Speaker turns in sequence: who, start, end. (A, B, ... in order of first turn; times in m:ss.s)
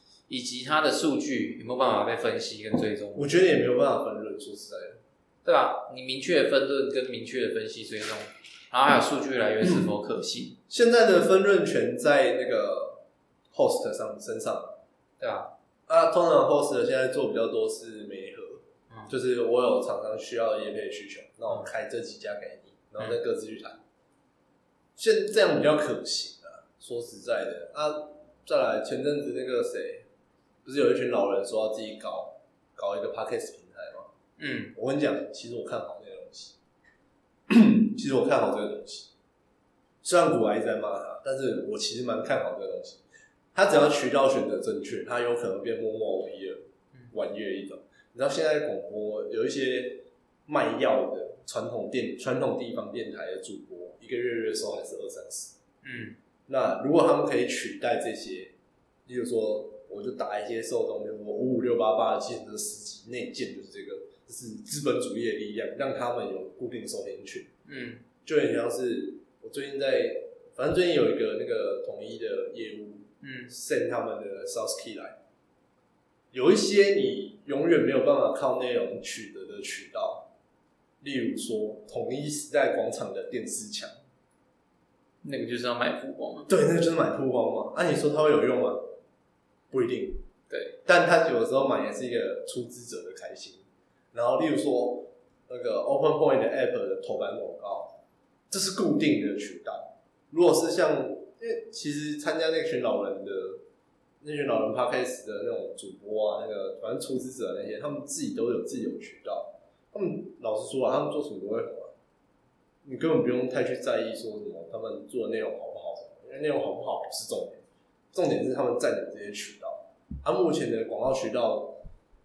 0:00.3-0:03.3 A
0:03.2-0:05.0 B
0:05.4-0:10.6 A
0:10.7-0:13.0 B
0:13.5-0:14.8 B
0:15.2-0:15.5 A
0:15.9-0:23.8 B
0:25.0-0:30.0 B
0:30.6-0:34.1 B
0:34.4-0:34.7 A
0:34.7-0:36.6 B
0:37.5-0:39.1 B
0:40.0-0:43.0 B
0:43.5-0:46.6 B
0:47.1-0:55.6 B
0:55.8-0:56.2 A
0:56.5-0:58.5 B
0:59.0-1:07.5 B
1:07.6-1:08.0 A
1:08.2-1:15.2 B
1:13.2-1:13.5 A
1:16.3-1:20.2 B
1:21.0-1:23.9 B
1:25.2-1:26.5 A
1:26.5-1:28.9 B
1:29.7-1:30.2 B
1:30.5-1:30.8 A
1:30.8-1:37.9 B
1:38.5-1:43.6 B
1:44.2-1:51.9 B
1:52.8-1:57.6 B
1:58.1-2:01.8 B